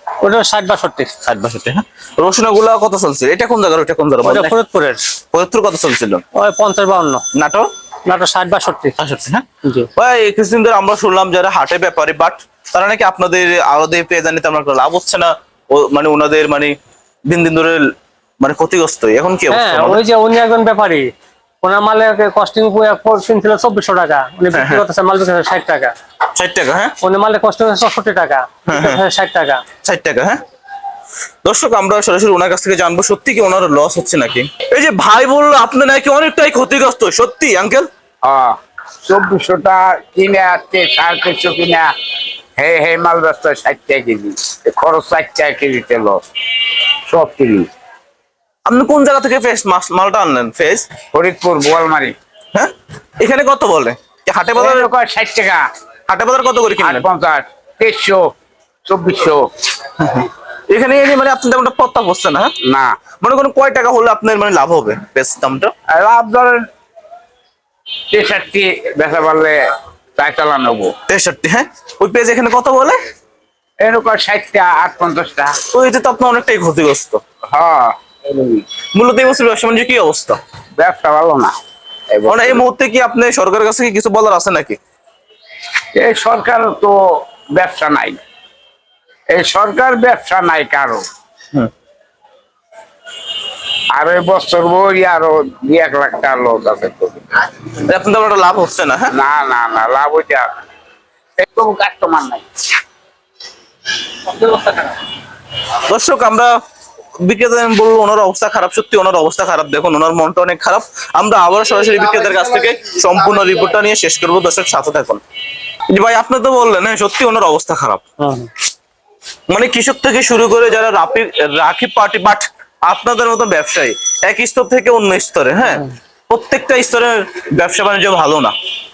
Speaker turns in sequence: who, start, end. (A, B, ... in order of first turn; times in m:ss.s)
0:00.2-0:01.1 A
0:01.2-0:04.5 B
0:04.2-0:05.0 A
0:05.3-0:06.2 B
0:06.4-0:07.2 A
0:07.4-0:07.7 B
0:08.1-0:09.0 A
0:09.0-0:09.4 B
0:09.6-0:09.9 A
0:10.0-0:16.7 B
0:17.3-0:17.8 B
0:18.4-0:20.0 B
0:19.5-0:21.1 A
0:21.6-0:25.9 A
0:24.5-0:24.8 B
0:26.4-0:27.0 B
0:27.0-0:29.6 A
0:28.7-0:29.0 B
0:29.8-0:30.4 B
0:31.4-0:37.9 B
0:38.2-0:38.6 C
0:39.1-0:41.9 C
0:42.6-0:46.2 C
0:47.1-0:47.7 C
0:48.7-0:50.9 B
0:51.1-0:52.2 C
0:52.5-0:54.9 B
0:54.6-0:55.6 C
0:56.1-0:57.0 B
0:56.8-0:58.3 C
0:58.8-0:59.5 C
1:00.0-1:02.5 B
1:02.6-1:03.0 C
1:03.2-1:05.7 B
1:05.9-1:06.6 C
1:08.1-1:09.6 C
1:10.2-1:10.9 C
1:11.1-1:13.0 B
1:13.8-1:15.6 C
1:15.7-1:17.2 B
1:17.5-1:18.7 C
1:19.0-1:20.4 B
1:20.8-1:21.6 C
1:22.1-1:22.6 C
1:22.3-1:24.8 B
1:26.0-1:27.0 C
1:27.6-1:28.2 C
1:29.3-1:31.0 C
1:34.0-1:37.3 C
1:37.8-1:39.1 B
1:39.1-1:40.5 C
1:41.4-1:42.5 C
1:44.2-1:45.0 A
1:45.9-1:46.5 B
1:47.2-1:55.2 B
1:55.9-1:58.0 B
1:58.2-1:58.5 A
1:59.5-2:08.5 B